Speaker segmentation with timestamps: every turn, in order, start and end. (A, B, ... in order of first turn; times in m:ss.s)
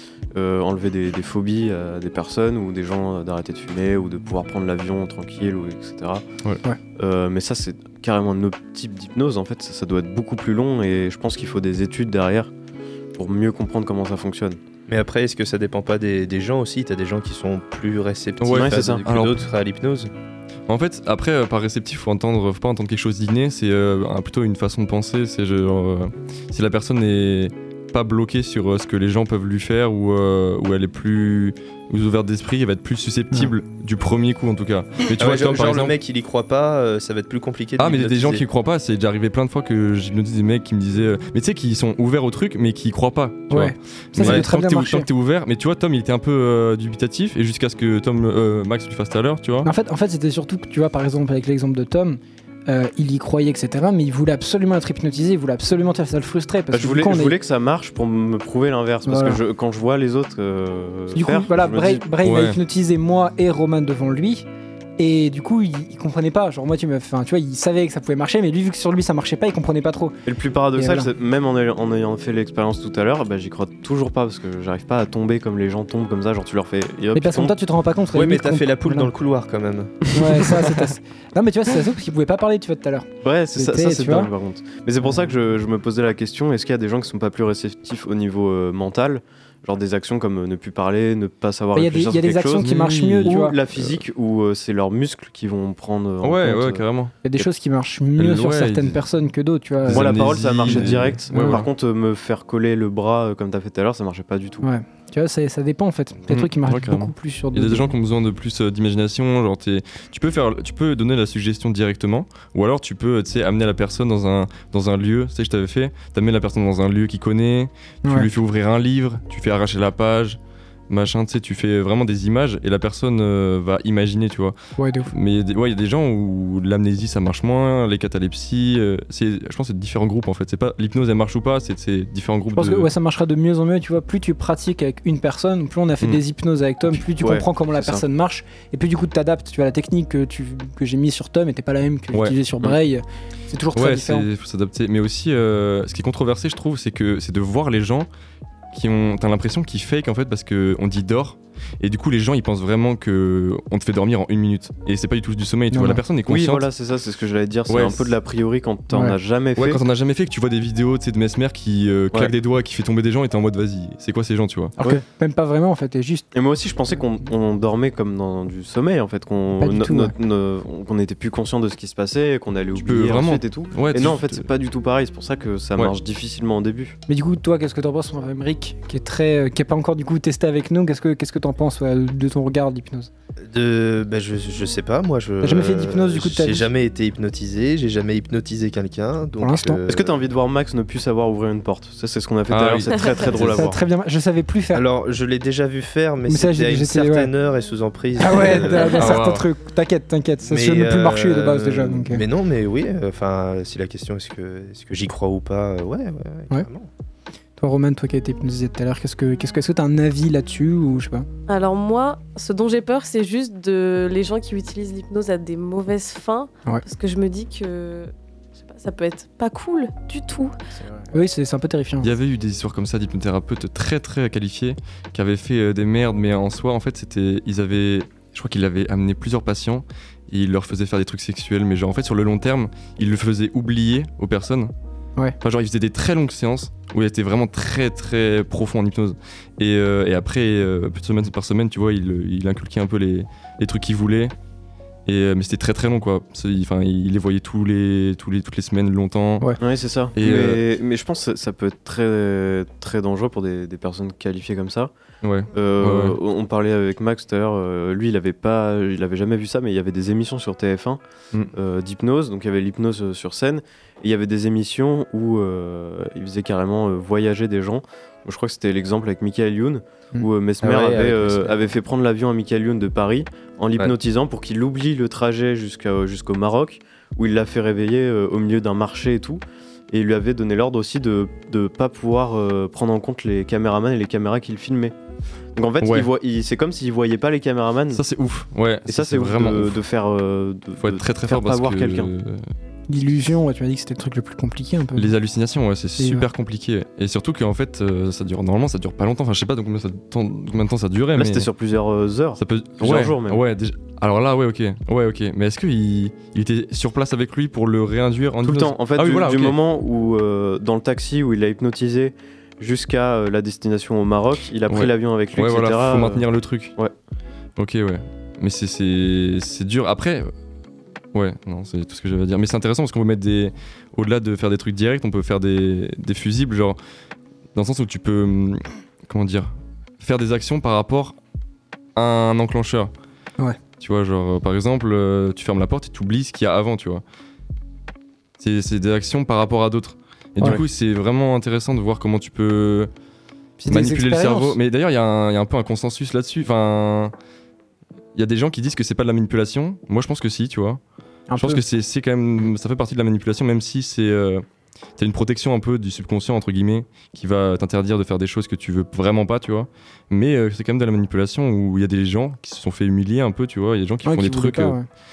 0:00.3-0:06.2 A
0:07.0-0:12.5 A
0:13.2-0:14.6 A
0:14.9-0:20.1 B
0:18.4-0:19.4 C
0:18.5-0:19.0 A
0:20.7-0:35.9 C
0:35.2-0:38.4 B
0:37.8-0:49.7 C
0:43.5-0:45.1 D
0:49.6-0:57.3 D
0:56.7-1:02.1 A
0:59.0-0:59.4 D
1:01.1-1:04.4 D
1:02.2-1:02.6 C
1:05.0-1:10.2 D
1:10.2-1:17.6 A
1:10.8-1:11.1 D
1:17.1-1:19.1 D
1:18.1-1:20.1 B
1:20.1-1:24.3 D
1:23.2-1:36.8 A
1:31.7-1:33.6 D
1:32.6-1:33.4 C
1:36.2-1:37.1 C
1:37.2-1:41.7 D
1:38.2-1:39.0 C
1:39.8-1:41.6 C
1:39.9-1:44.6 A
1:44.6-1:47.9 D
1:46.3-2:00.4 C
1:58.0-1:58.3 D
2:00.9-2:04.6 C
2:04.8-2:05.1 D
2:05.1-2:12.9 C
2:12.5-2:24.3 D
2:17.2-2:18.0 A
2:22.1-2:22.7 C
2:23.7-2:28.1 C
2:28.7-2:36.6 C
2:35.7-2:36.0 D
2:36.3-2:39.8 A
2:37.7-2:38.1 C
2:38.9-2:39.2 D
2:39.6-2:44.7 C
2:44.8-2:46.3 D
2:46.3-2:57.0 A
2:49.6-2:50.1 D
2:52.8-2:54.4 C
2:57.1-3:03.1 D
3:03.5-3:10.2 B
3:05.4-3:06.7 D
3:09.4-3:09.8 D
3:09.9-3:13.8 A
3:12.5-3:13.7 C
3:13.5-3:14.8 D
3:14.7-3:19.0 B
3:16.3-3:17.3 D
3:18.2-3:22.2 D
3:18.9-3:19.4 C
3:20.4-3:26.9 B
3:27.6-3:31.3 D
3:31.5-3:40.5 E
3:41.1-3:42.1 D
3:42.0-3:54.7 C
3:55.4-4:04.3 C
4:05.0-4:09.5 C
4:09.6-4:14.9 A
4:10.2-4:10.6 C
4:15.2-4:16.2 C
4:15.5-4:21.0 A
4:21.5-4:44.9 A
4:30.6-4:31.7 B
4:45.5-4:48.0 A
4:45.8-4:46.1 C
4:47.9-4:49.8 C
4:48.9-4:52.1 A
4:50.8-4:52.4 C
4:52.9-4:55.1 D
4:55.0-5:01.5 C
4:56.0-4:56.3 D
5:01.1-5:03.4 A
5:02.4-5:09.6 C
5:08.4-5:16.9 A
5:14.7-5:16.7 C
5:17.6-5:20.3 C
5:21.1-5:26.8 C
5:27.5-5:31.2 C
5:32.0-5:32.9 C
5:33.8-5:37.0 C
5:38.4-5:42.9 C
5:43.6-5:44.6 D
5:43.6-5:47.1 C
5:48.1-5:50.8 C
5:51.3-5:51.6 D
5:51.4-5:54.4 C
5:55.0-6:04.8 C
6:04.0-6:04.9 D